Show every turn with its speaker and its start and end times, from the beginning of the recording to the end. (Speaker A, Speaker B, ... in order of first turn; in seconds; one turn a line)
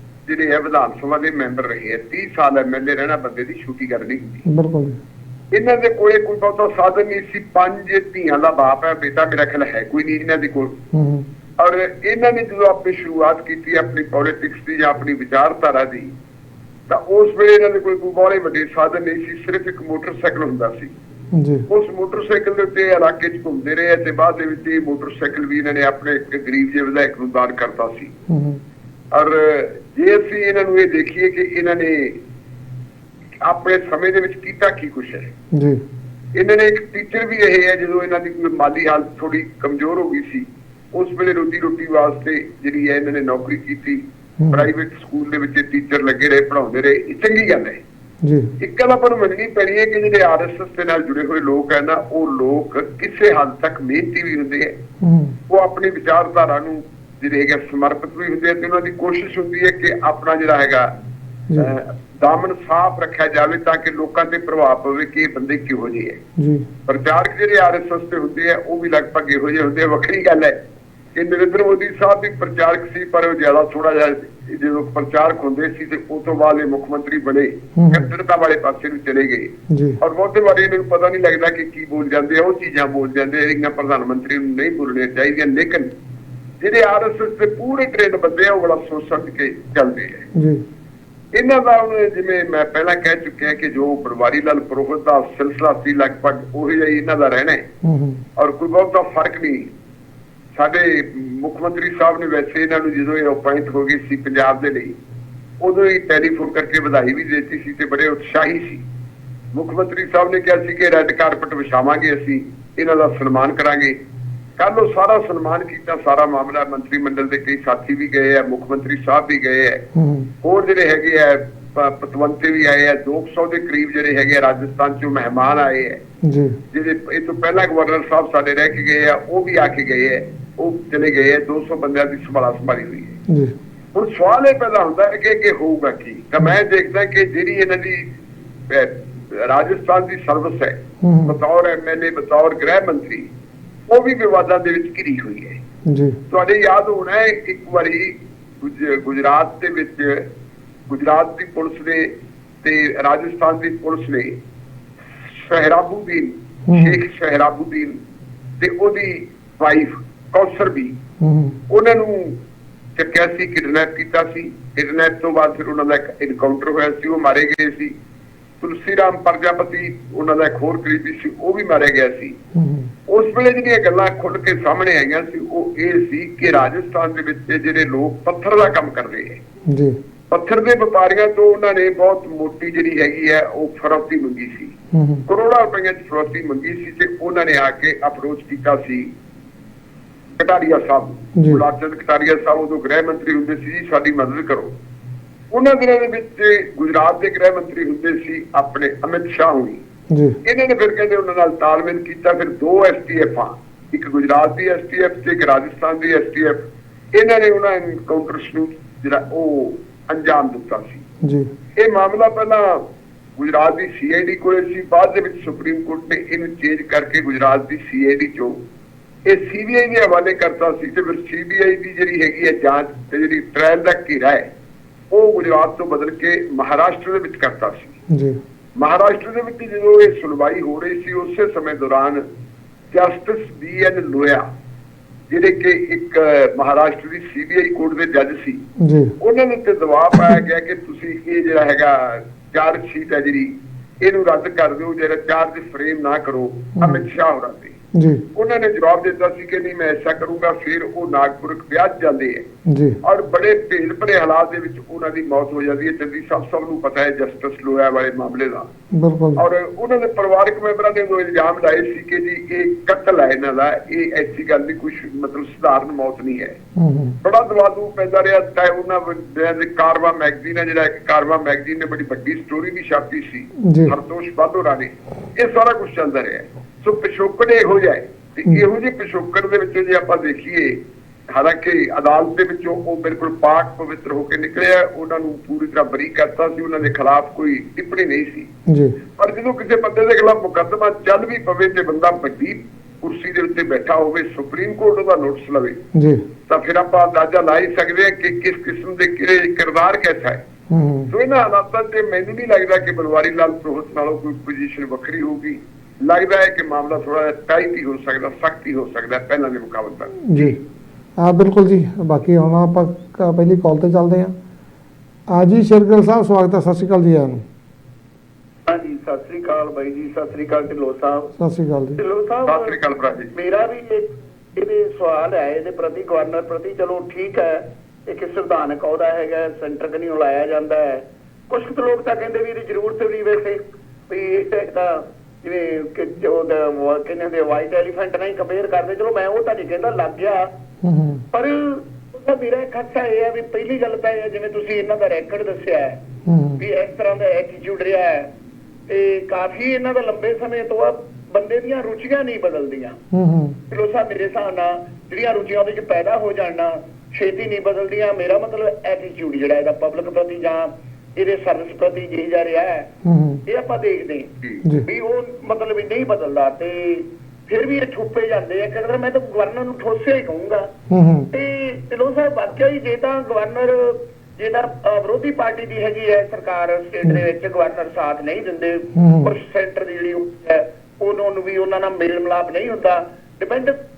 Speaker A: 0.3-4.4
Speaker B: 4.5-5.0
Speaker A: 5.5-10.8
Speaker B: 10.9-11.3
Speaker A: 11.6-16.1
Speaker A: 16.9-20.9
Speaker B: 21.3-21.6
Speaker A: 21.7-28.1
Speaker B: 28.3-28.6
Speaker A: 29.1-32.2
Speaker A: 33.5-35.3
Speaker B: 35.5-35.8
Speaker A: 36.4-47.8
Speaker B: 44.4-44.7
Speaker B: 48.2-48.5
Speaker A: 48.6-54.8
Speaker B: 55.0-55.4
Speaker A: 55.5-60.9
Speaker A: 61.6-66.2
Speaker B: 66.4-66.7
Speaker A: 66.9-70.6
Speaker A: 71.2-85.9
Speaker B: 77.8-78.1
Speaker B: 79.7-80.0
Speaker A: 86.6-90.3
Speaker B: 90.3-90.6
Speaker A: 91.3-97.6
Speaker B: 97.8-98.2
Speaker A: 98.4-99.7
Speaker A: 100.5-105.0
Speaker A: 105.6-108.8
Speaker A: 109.5-114.0
Speaker A: 114.6-119.8
Speaker B: 120.0-120.3
Speaker A: 120.4-126.0
Speaker B: 126.2-126.6
Speaker A: 126.7-133.2
Speaker B: 133.3-133.6
Speaker A: 133.9-138.1
Speaker A: 138.7-143.3
Speaker B: 141.0-141.4
Speaker A: 143.9-145.6
Speaker B: 145.9-146.2
Speaker A: 146.3-150.3
Speaker A: 150.9-154.4
Speaker A: 155.3-158.0
Speaker B: 156.7-157.0
Speaker A: 158.6-161.0
Speaker B: 161.2-161.6
Speaker A: 161.7-162.4
Speaker A: 163.0-167.9
Speaker A: 168.6-172.4
Speaker B: 172.6-172.9
Speaker A: 173.1-179.4
Speaker B: 179.7-180.0
Speaker A: 180.3-184.7
Speaker B: 184.9-185.2
Speaker A: 185.3-189.1
Speaker A: 190.4-194.7
Speaker B: 191.4-191.6
Speaker A: 195.5-199.8
Speaker B: 200.1-200.4
Speaker A: 200.4-206.6
Speaker A: 207.2-211.0
Speaker B: 211.2-211.5
Speaker A: 211.8-212.8
Speaker A: 213.4-218.6
Speaker A: 219.2-224.5
Speaker A: 225.1-227.9
Speaker B: 228.1-228.4
Speaker A: 228.8-232.2
Speaker A: 232.9-234.5
Speaker A: 235.3-238.6
Speaker B: 238.8-239.1
Speaker A: 239.2-247.8
Speaker B: 247.9-248.2
Speaker A: 248.3-252.5
Speaker B: 252.7-253.0
Speaker A: 253.0-258.7
Speaker B: 258.9-259.4
Speaker A: 259.4-266.6
Speaker B: 266.8-267.2
Speaker A: 267.2-280.8
Speaker B: 273.6-273.9
Speaker A: 281.3-288.5
Speaker B: 288.7-289.0
Speaker A: 289.2-295.8
Speaker B: 295.9-296.2
Speaker A: 296.5-300.4
Speaker B: 300.7-301.1
Speaker A: 301.1-310.6
Speaker B: 310.2-310.6
Speaker B: 311.2-314.3
Speaker B: 315.3-317.4
Speaker C: 318.7-321.3
Speaker B: 321.4-322.0
Speaker C: 322.0-322.7
Speaker A: 322.5-323.3
Speaker C: 323.3-340.5
Speaker B: 340.8-341.2
Speaker C: 341.3-346.0
Speaker B: 346.3-346.6
Speaker C: 346.6-348.3
Speaker C: 348.9-353.0
Speaker B: 353.1-353.6
Speaker C: 353.7-362.9
Speaker B: 363.0-363.4
Speaker C: 363.5-370.7
Speaker B: 370.9-371.3
Speaker C: 371.3-383.8
Speaker B: 378.9-379.4